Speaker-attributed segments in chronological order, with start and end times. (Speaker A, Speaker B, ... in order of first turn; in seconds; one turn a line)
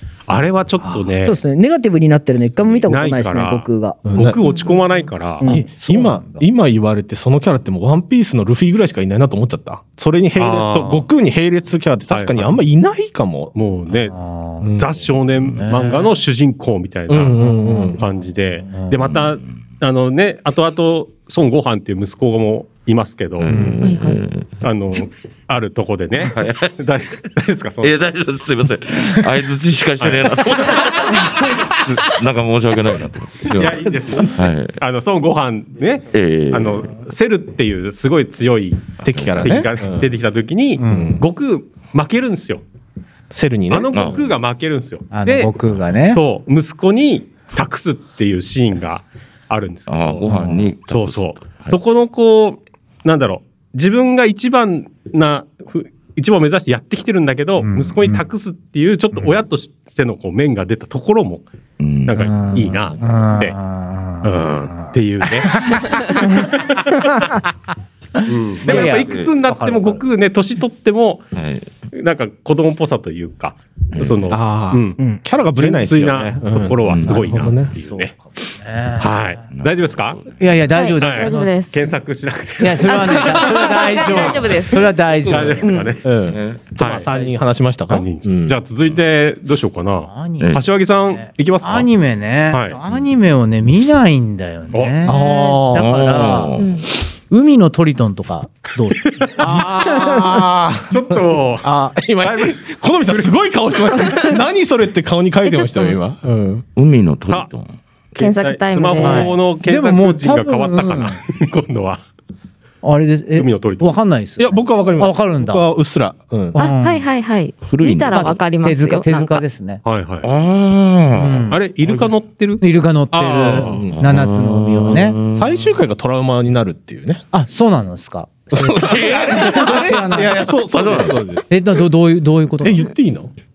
Speaker A: 0.3-1.3
Speaker B: 1.2-4.1
Speaker A: 2.9-5.5
Speaker C: 4.0-4.4
Speaker D: 4.4-5.1
Speaker B: 5.4-5.8
Speaker C: 5.4-13.5
Speaker E: 5.5-6.4
Speaker A: 10.3-11.1
Speaker A: 12.1-12.6
Speaker A: 13.5-14.2
Speaker E: 13.9-14.7
Speaker C: 14.6-14.9
Speaker A: 14.7-23.7
Speaker F: 15.3-15.6
Speaker E: 15.6-16.1
Speaker C: 17.1-18.0
Speaker E: 17.4-18.1
Speaker E: 18.6-18.9
Speaker F: 19.0-19.4
Speaker F: 23.4-24.6
Speaker E: 23.5-23.8
Speaker D: 23.8-24.2
Speaker A: 24.6-27.9
Speaker F: 26.2-26.8
Speaker F: 27.8-34.8
Speaker A: 30.0-30.3
Speaker A: 33.5-42.6
Speaker F: 36.1-36.9
Speaker C: 39.0-40.1
Speaker F: 39.0-39.7
Speaker E: 40.8-41.2
Speaker C: 40.8-41.2
Speaker C: 43.3-44.2
Speaker A: 43.7-45.5
Speaker F: 43.9-44.2
Speaker E: 45.1-46.2
Speaker A: 46.1-50.3
Speaker F: 49.9-51.8
Speaker E: 50.2-50.7
Speaker A: 50.9-61.4
Speaker E: 57.6-58.2
Speaker F: 61.8-62.9
Speaker A: 62.0-63.5
Speaker E: 62.2-66.8
Speaker A: 64.2-65.9
Speaker A: 68.3-71.2
Speaker F: 68.6-69.3
Speaker E: 68.6-70.0
Speaker F: 71.3-71.7
Speaker A: 71.9-75.0
Speaker F: 73.9-74.4
Speaker C: 74.3-77.8
Speaker B: 75.0-75.2
Speaker A: 75.5-78.1
Speaker F: 76.8-77.5
Speaker E: 77.8-79.4
Speaker A: 79.0-80.2
Speaker F: 79.5-80.7
Speaker E: 80.4-81.6
Speaker D: 80.7-81.9
Speaker A: 81.0-84.5
Speaker E: 82.6-85.6
Speaker D: 82.8-84.9
Speaker F: 85.0-86.8
Speaker A: 85.2-86.1
Speaker D: 85.6-85.9
Speaker C: 86.0-88.6
Speaker A: 86.8-87.1
Speaker A: 87.9-91.9
Speaker E: 90.0-96.5
Speaker F: 90.4-90.7
Speaker A: 92.5-92.8
Speaker A: 94.7-95.2
Speaker C: 95.0-96.2
Speaker F: 95.8-96.8
Speaker D: 96.6-96.9
Speaker E: 97.3-99.5
Speaker C: 99.4-106.6
Speaker A: 100.9-103.4
Speaker D: 105.4-106.0
Speaker F: 106.7-107.8
Speaker A: 108.1-112.0
Speaker D: 108.2-109.3
Speaker E: 109.0-111.2
Speaker E: 112.8-115.7
Speaker A: 113.3-113.9
Speaker C: 114.4-116.6
Speaker E: 116.5-117.0
Speaker D: 116.5-119.3
Speaker F: 117.6-118.4
Speaker E: 118.1-119.8
Speaker F: 119.1-119.4
Speaker A: 119.8-120.3
Speaker F: 120.2-122.2
Speaker E: 121.1-121.6
Speaker A: 121.5-123.8
Speaker E: 122.6-125.2
Speaker C: 123.4-124.2
Speaker F: 123.8-125.8
Speaker C: 125.2-127.2
Speaker E: 127.3-130.5
Speaker C: 128.5-131.4
Speaker F: 128.6-130.2
Speaker F: 130.7-131.2
Speaker E: 131.5-132.9
Speaker C: 132.6-133.3